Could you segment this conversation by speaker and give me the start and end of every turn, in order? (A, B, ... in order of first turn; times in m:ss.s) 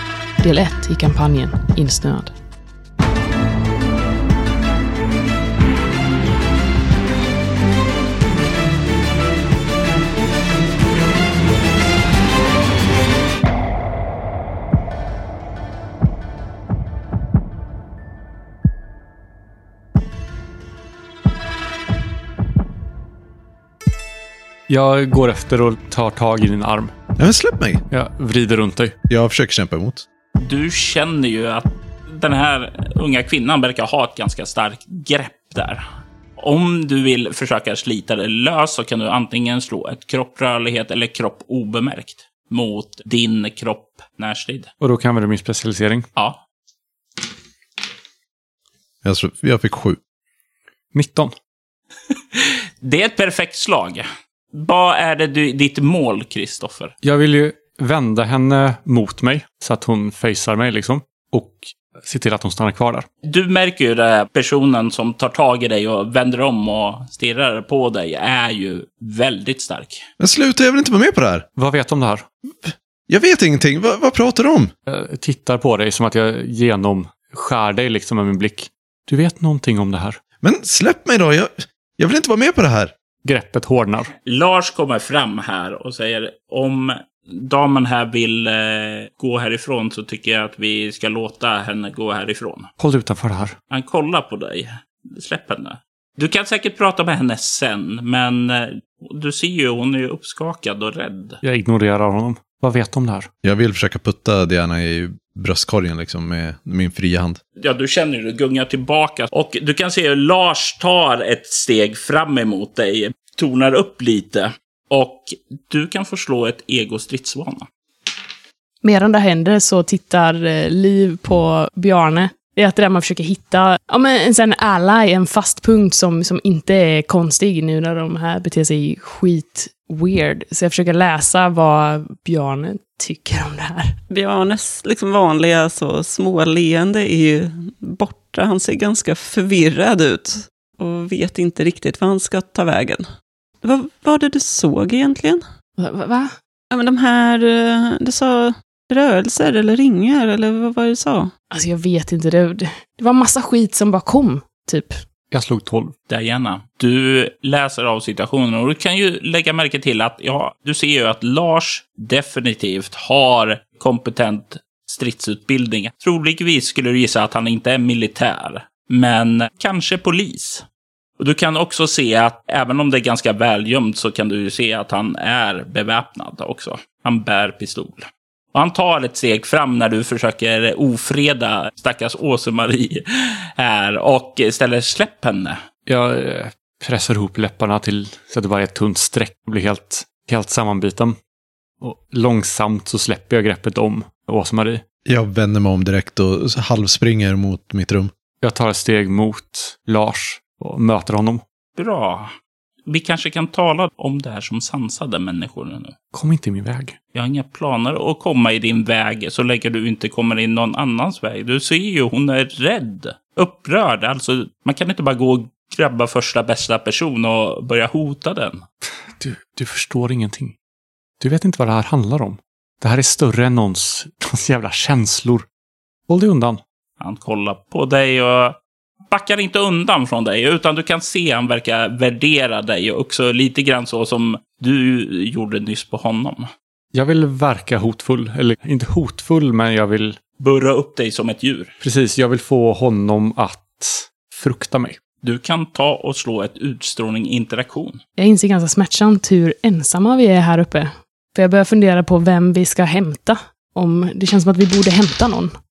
0:00.4-0:02.3 A
0:24.7-0:26.9 B
0:27.2-0:27.8 C
0:27.9-0:29.0 B
0:29.1-0:30.1 C
0:30.4-0:44.7 D
0:44.8-0:46.1 B
0:46.2-0:46.4 D
0:49.0-0:50.0 C
0:50.9-0:51.3 B
0:52.3-0:56.9 D
0:57.0-1:03.1 B
1:03.2-1:10.0 D
1:10.2-1:11.5 C
1:11.6-1:12.3 B
1:12.6-1:14.7 C
1:14.9-1:20.2 B
1:20.4-1:22.9 C
1:23.2-1:24.1 B
1:24.2-1:32.7 D
1:32.8-1:33.6 B
1:33.7-1:41.4 D
1:41.4-1:43.3 B
1:43.4-1:47.4 C
1:47.6-1:57.7 D
1:58.8-2:14.0 A
2:14.1-2:23.1 E
2:23.6-2:25.4 E
2:25.8-2:26.4 A
2:26.7-2:31.3 E
2:31.5-2:35.0 A
2:35.3-2:35.9 B
2:36.1-2:50.6 D
2:51.2-3:05.6 D
3:05.9-3:11.2 B
3:11.8-3:14.8 B
3:15.0-3:18.1 C
3:18.4-3:21.4 B
3:21.8-3:22.3 D
3:22.9-3:26.0 D
3:26.1-3:27.0 B
3:27.1-3:38.6 D
3:39.2-3:40.6 B
3:41.2-3:45.5 B
3:46.1-3:46.6 B
3:47.0-3:48.6 D
3:49.1-3:56.5 D
3:56.9-4:00.2 B
4:00.4-4:01.7 D
4:01.8-4:05.0 B
4:05.2-4:08.0 D
4:08.2-4:15.6 A